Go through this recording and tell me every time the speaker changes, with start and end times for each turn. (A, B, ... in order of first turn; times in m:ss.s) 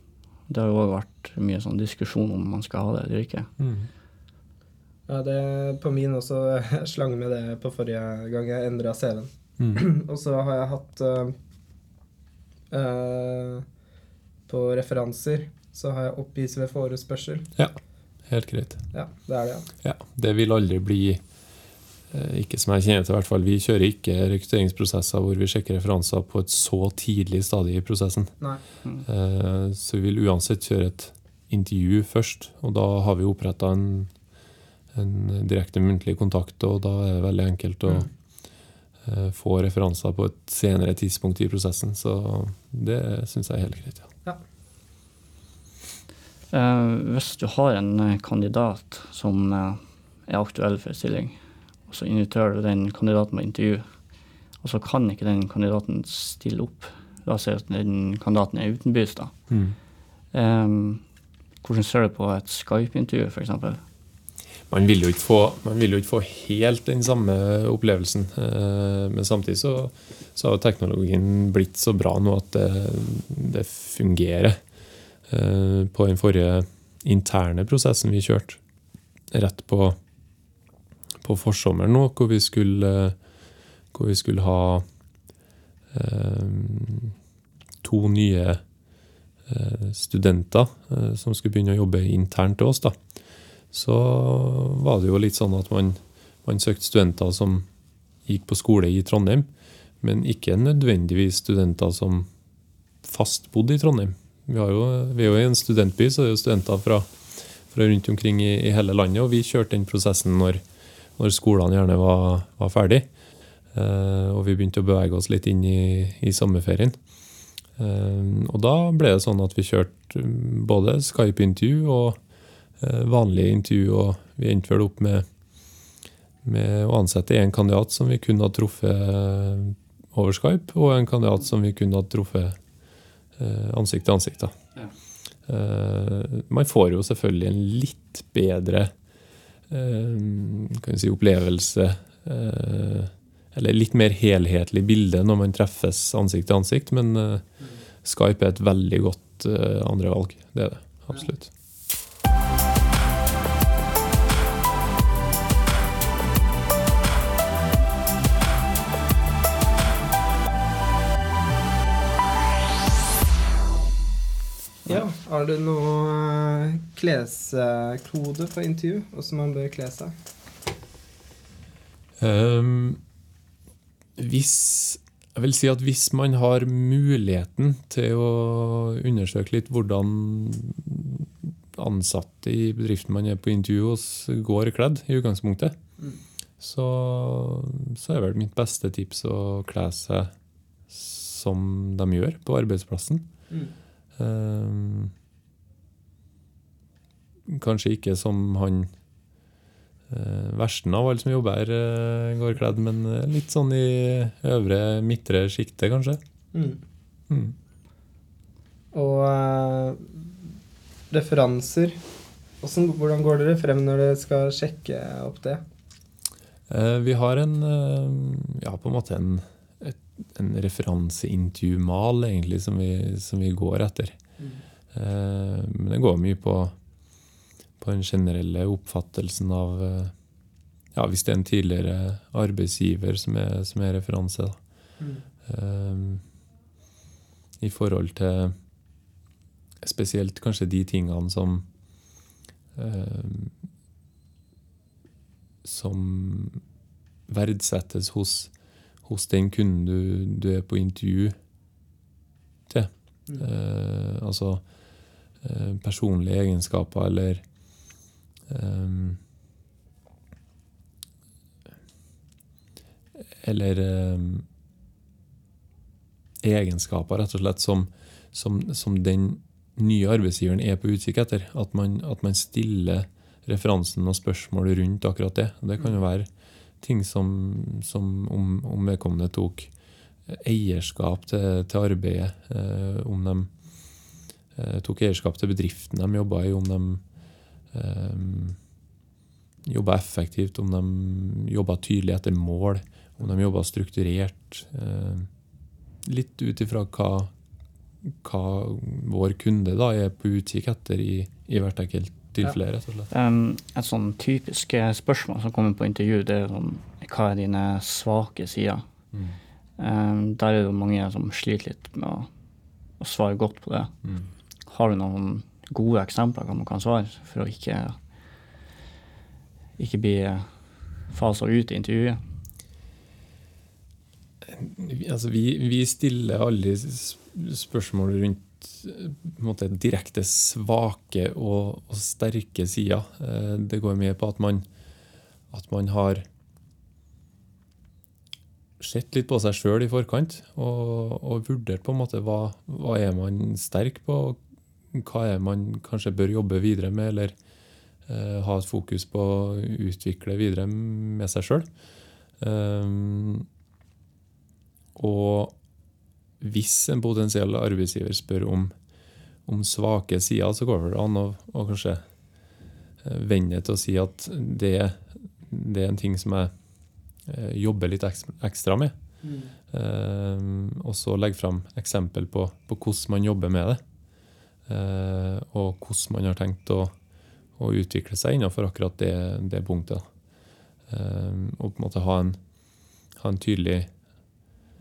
0:00.5-0:03.5 A
0:03.6-0:03.9 B
0:05.1-0:11.3 C
0:09.6-0:09.8 B
0:12.7-0:13.6 C
0:14.5-0:17.5 C
0:18.3-0:18.8 B
0:18.9-0:19.7 C
0:19.8-0:21.2 B
0:22.1-0:28.3 B
0:29.0-0:34.1 B
0:34.9-0:38.1 B
0:39.0-0:44.1 B
0:46.5-0:53.8 A
0:54.6-0:59.3 A
0:59.5-0:59.8 B
1:00.3-1:01.0 A
1:01.6-1:03.8 A
1:04.7-1:14.6 B
1:15.3-1:18.6 B
1:19.3-1:20.0 B
1:21.2-1:23.2 B
1:23.9-1:24.8 B
1:25.9-1:27.1 B
1:27.8-1:28.6 B
1:29.5-1:33.0 B
1:33.7-1:37.6 B
1:38.2-1:39.5 B
1:40.0-1:42.3 B
1:43.0-1:50.6 B
1:51.2-1:53.1 B
1:53.7-1:57.0 B
1:57.8-2:02.2 B
2:02.8-2:05.2 B
2:06.4-2:12.6 B
2:13.4-2:14.5 B
2:15.5-2:18.9 B
2:19.7-2:27.4 B
2:28.0-2:31.5 B
2:44.8-2:50.1 C
2:52.2-2:53.0 B
2:54.2-3:05.8 B
3:06.6-3:10.3 B
3:10.9-3:13.3 B
3:14.2-3:15.1 B
3:17.4-3:18.9 B
3:20.1-3:26.2 B
3:26.5-3:26.8 C
3:27.3-3:27.6 B
3:28.9-3:30.3 C
3:31.1-3:32.0 C
3:32.6-3:35.6 C
3:36.7-3:44.2 B
3:44.9-3:46.7 B
3:47.8-3:50.1 B
3:50.9-3:54.6 B
3:55.0-3:55.2 C
3:55.4-3:56.2 B
3:57.6-3:58.6 B
3:59.8-4:01.6 B
4:02.8-4:03.5 B
4:05.6-4:06.6 B
4:07.3-4:08.5 B
4:09.0-4:11.4 B
4:12.7-4:14.6 B
4:15.4-4:17.4 B
4:18.5-4:19.2 B
4:23.2-4:24.4 B
4:26.4-4:36.3 B
4:36.8-4:39.7 B
4:40.3-4:43.5 B
4:44.6-4:47.0 B
4:47.7-4:48.6 B
4:49.6-4:55.3 B
4:56.0-4:57.3 B
4:58.0-5:03.1 B
5:03.1-5:08.8 A
5:09.1-5:09.4 B
5:09.8-5:12.3 A
5:13.0-5:13.9 A
5:14.7-5:18.0 A
5:19.8-5:20.5 A
5:21.1-5:22.2 A
5:24.4-5:34.6 B
5:35.5-5:36.2 B
5:38.8-5:44.4 B
5:44.9-5:47.3 B
5:48.1-5:51.7 B
5:52.4-5:53.4 B
5:55.0-5:55.5 B
5:56.4-5:58.7 B
5:59.4-6:02.0 B
6:03.0-6:06.5 B
6:07.2-6:09.0 B
6:09.2-6:09.5 C
6:09.7-6:13.8 B
6:14.7-6:16.9 B
6:17.6-6:20.0 B
6:20.9-6:22.4 B
6:23.2-6:23.9 B